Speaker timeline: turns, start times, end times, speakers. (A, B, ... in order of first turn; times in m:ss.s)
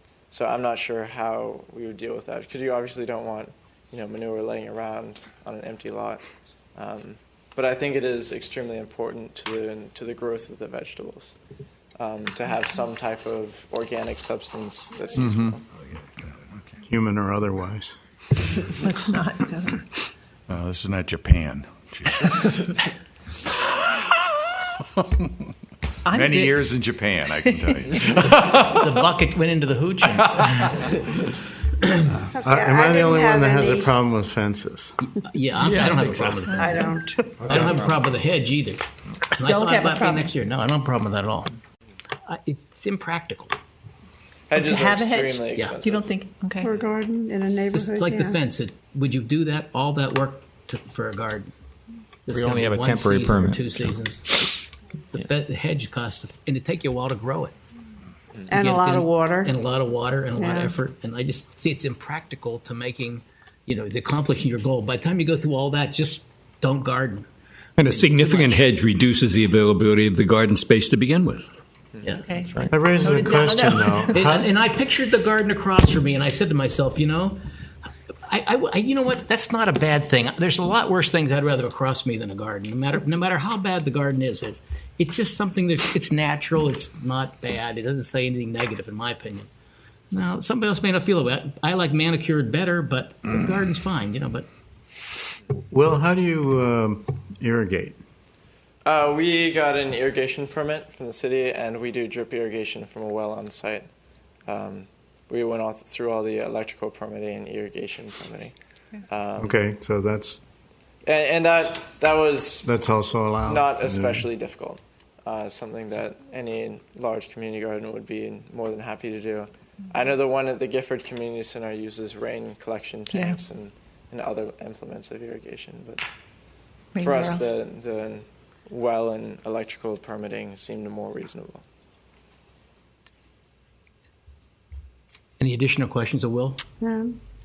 0:00.3-0:06.2 A
0:06.8-0:11.4 A
0:12.0-0:15.6 A
0:15.2-0:15.5 B
0:16.8-0:18.0 C
0:18.8-0:19.8 D
0:20.5-0:22.7 B
0:25.0-0:25.3 B
0:26.1-0:26.6 D
0:26.1-0:28.9 B
0:28.2-0:30.8 E
0:32.4-0:33.9 F
0:32.4-0:34.9 C
0:35.1-0:41.5 E
0:35.6-0:36.4 G
0:36.6-0:37.2 F
0:37.4-0:37.9 G
0:39.4-0:40.3 D
0:42.3-0:43.6 E
0:44.5-0:46.1 A
0:44.6-0:46.7 D
0:46.6-0:48.4 F
0:47.7-0:51.5 E
0:52.2-0:54.3 E
0:52.3-0:54.0 G
0:55.1-0:57.5 E
0:58.5-0:59.5 F
0:58.5-1:07.3 E
1:00.4-1:00.8 F
1:07.8-1:11.5 G
1:07.8-1:08.7 E
1:12.2-1:14.1 D
1:12.7-1:14.5 C
1:14.1-1:17.4 E
1:18.3-1:29.5 E
1:30.1-1:34.5 E
1:35.7-1:38.0 C
1:38.8-1:43.9 A
1:44.5-1:48.5 A
1:49.1-1:49.6 A
1:49.4-1:50.4 C
1:51.0-1:52.7 A
1:52.6-1:54.2 C
1:53.4-2:06.0 A
2:07.0-2:07.4 D
2:07.0-2:11.6 A
2:15.4-2:16.6 E
2:16.8-2:17.2 F